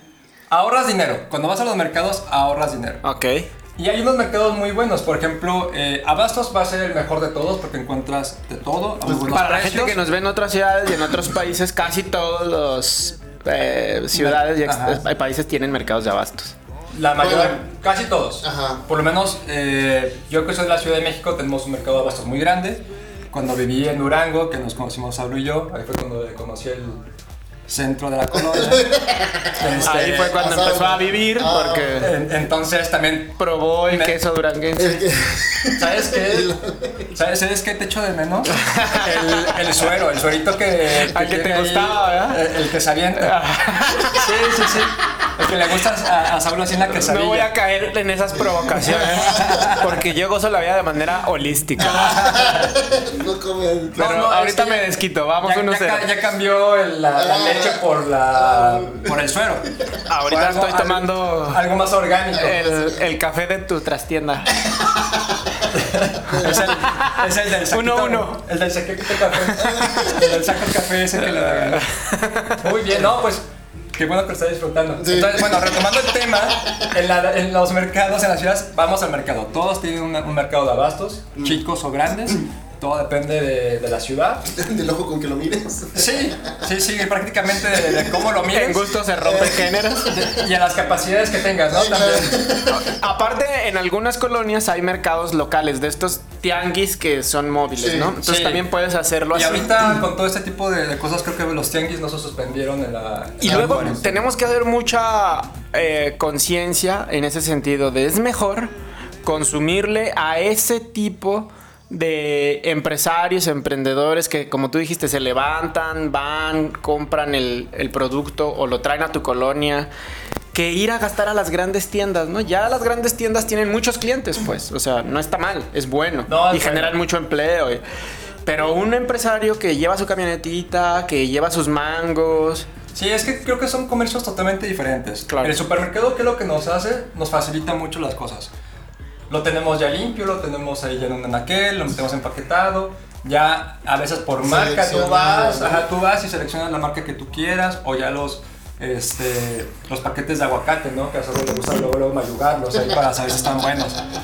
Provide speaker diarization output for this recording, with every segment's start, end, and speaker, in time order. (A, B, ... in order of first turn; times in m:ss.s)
0:00.5-0:03.0 A
0:03.0-0:03.5 B
0:03.8-0:10.0 A
0:09.0-0:09.3 C
0:09.3-0:16.5 B
0:14.1-0:15.0 A
0:16.9-0:27.0 A
0:17.2-0:17.6 C
0:18.4-0:18.8 C
0:27.7-0:30.5 A
0:28.4-0:32.1 C
0:29.8-0:32.1 B
0:32.0-0:34.2 A
0:33.4-0:35.1 B
0:34.8-0:37.1 C
0:35.7-0:36.6 A
0:37.1-0:43.4 A
0:38.5-0:39.6 B
0:41.1-0:42.4 B
0:43.2-0:44.3 B
0:44.0-0:47.5 A
0:46.9-0:52.1 B
0:48.9-0:50.0 A
0:49.1-0:49.6 C
0:51.8-0:52.7 A
0:51.8-0:54.0 C
0:54.0-0:54.9 A
0:54.0-0:56.1 B
0:55.4-1:02.6 A
0:57.2-0:59.2 C
1:00.1-1:01.6 B
1:02.4-1:04.5 B
1:02.5-1:03.0 C
1:04.7-1:05.5 C
1:05.7-1:11.9 A
1:06.4-1:08.4 B
1:09.2-1:10.3 B
1:09.6-1:10.4 C
1:11.3-1:12.6 B
1:12.6-1:13.4 A
1:14.0-1:24.5 A
1:15.0-1:16.0 C
1:16.6-1:16.9 C
1:24.5-1:26.3 C
1:25.9-1:28.9 A
1:27.8-1:28.0 C
1:28.5-1:30.1 B
1:29.2-1:30.4 C
1:30.1-1:32.5 A
1:31.7-1:32.9 C
1:32.7-1:39.8 B
1:37.8-1:38.2 C
1:38.2-1:38.7 A
1:39.3-1:44.2 A
1:43.4-1:48.7 B
1:49.2-1:59.9 B
2:00.5-2:07.8 B
2:06.3-2:07.0 A
2:08.5-2:12.7 B
2:12.9-2:18.5 A
2:15.3-2:15.6 B
2:19.3-2:34.0 A
2:24.4-2:25.8 C